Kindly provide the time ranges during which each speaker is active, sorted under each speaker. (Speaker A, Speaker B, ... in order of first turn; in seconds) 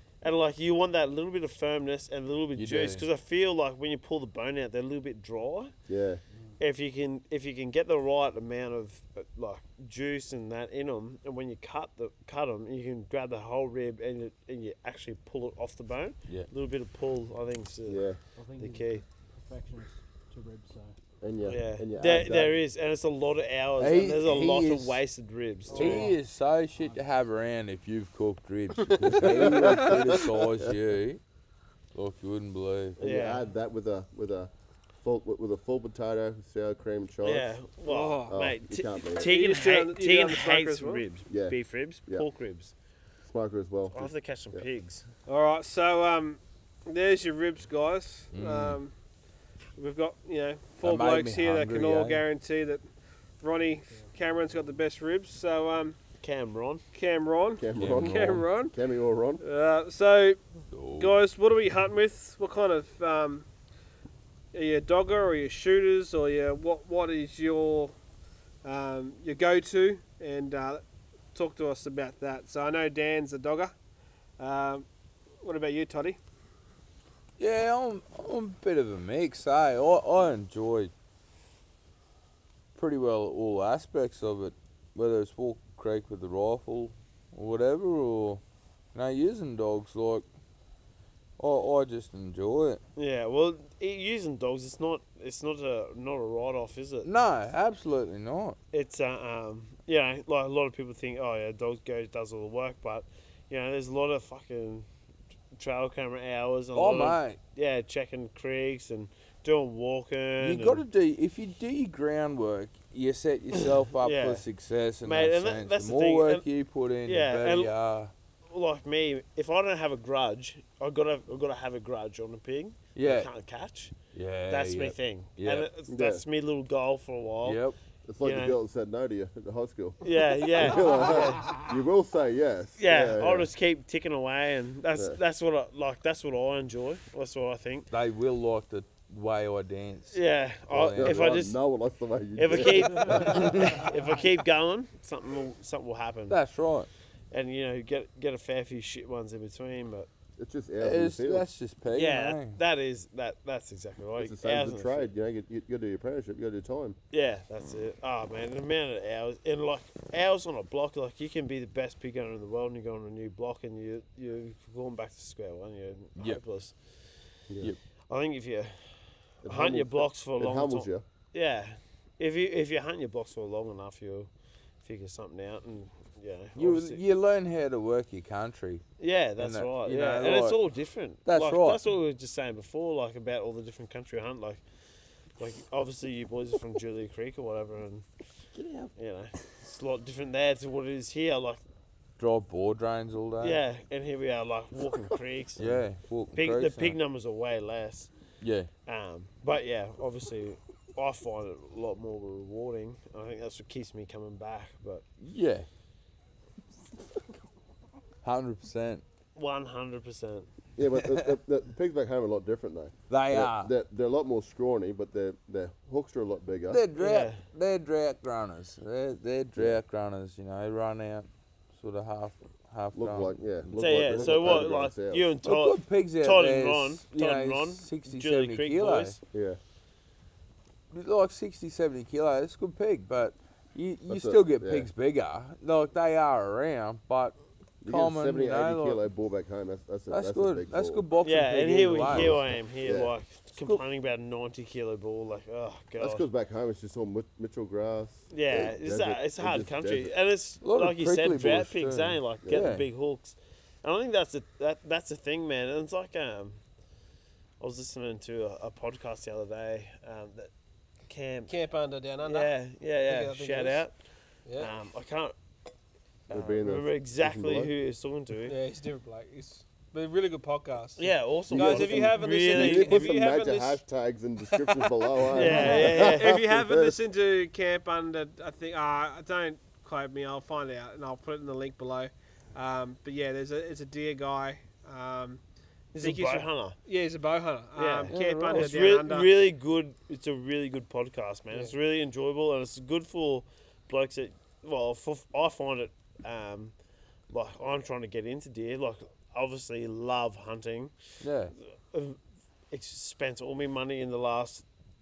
Speaker A: 0.2-5.7, 6.6-18.1, 18.6-19.0, 21.5-26.1, 33.0-33.5, 37.2-42.7, 43.9-45.0, 56.2-56.8, 93.0-97.1, 98.7-104.9, 105.6-110.8, 113.6-114.5, 115.0-116.5, 117.0-117.7, 118.5-124.0, 124.5-127.6, 128.2-128.6, 130.0-131.6, 132.8-137.9, 140.1-141.6, 142.4-146.4, 147.3-150.1, 151.9-155.1, 157.1-166.8, 168.1-174.3, 174.8-177.0, 179.0-184.6, 185.4-188.1, 189.0-191.6, 193.4-195.8, 196.3-198.1, 198.9-205.0, 209.4-210.5, 217.0-217.4, 223.8-229.2, 241.2-246.2, 248.3-256.6, 257.6-260.5, 261.1-261.5, 262.2-263.9, 264.6-265.4, 266.3-268.6, 271.0-273.1, 275.3-276.4, 285.9-286.8, 287.8-296.7, 297.3-300.9, 301.9-302.2, 302.7-304.6
Speaker B: 2.5-3.0, 23.8-25.0, 25.7-31.2, 31.9-33.0, 48.3-48.8, 50.8-52.2, 57.8-58.4, 60.7-61.2, 77.4-80.9, 82.8-88.4, 88.9-90.3, 91.4-92.8, 97.0-98.6, 106.7-107.4, 110.4-118.1, 123.0-123.3, 124.1-125.7, 127.4-127.8, 137.9-140.2, 140.7-141.4, 143.4-143.7, 146.3-146.9, 150.8-152.6, 176.6-178.8, 179.4-180.6, 181.2-181.8, 188.6-188.9, 192.2-193.6, 195.6-197.0, 198.4-198.7, 205.2-205.7, 208.2-209.0, 213.1-213.7, 216.7-224.7, 225.4-229.2, 230.9-239.0, 240.1-242.4, 250.6-252.9, 288.1-289.0, 301.2-301.5
Speaker C: 5.9-6.2, 17.9-18.2, 21.2-22.6, 29.0-30.7, 33.0-34.5, 35.0-37.5, 38.3-39.4, 41.3-42.3, 43.2-44.6, 57.6-59.4, 125.9-126.2, 128.1-133.5, 140.7-143.8, 150.4-151.5, 154.2-157.0, 169.4-171.0, 210.8-216.8, 222.9-225.3, 229.3-229.6, 234.1-234.9, 237.8-241.0, 242.0-243.1, 246.0-250.1, 266.3-267.7, 271.5-277.0
Speaker D: 18.4-21.0, 25.7-26.2, 26.7-27.0
Speaker E: 29.0-29.7, 37.9-38.4, 39.2-41.0, 45.3-48.9, 49.8-52.8, 53.4-56.0, 56.9-58.8, 59.4-60.4, 61.0-63.5, 64.5-68.0, 68.6-70.8, 71.3-73.7, 74.4-74.9, 75.4-76.2, 261.5-262.5, 263.1-263.8, 268.5-273.8, 275.3-285.4, 286.0-289.3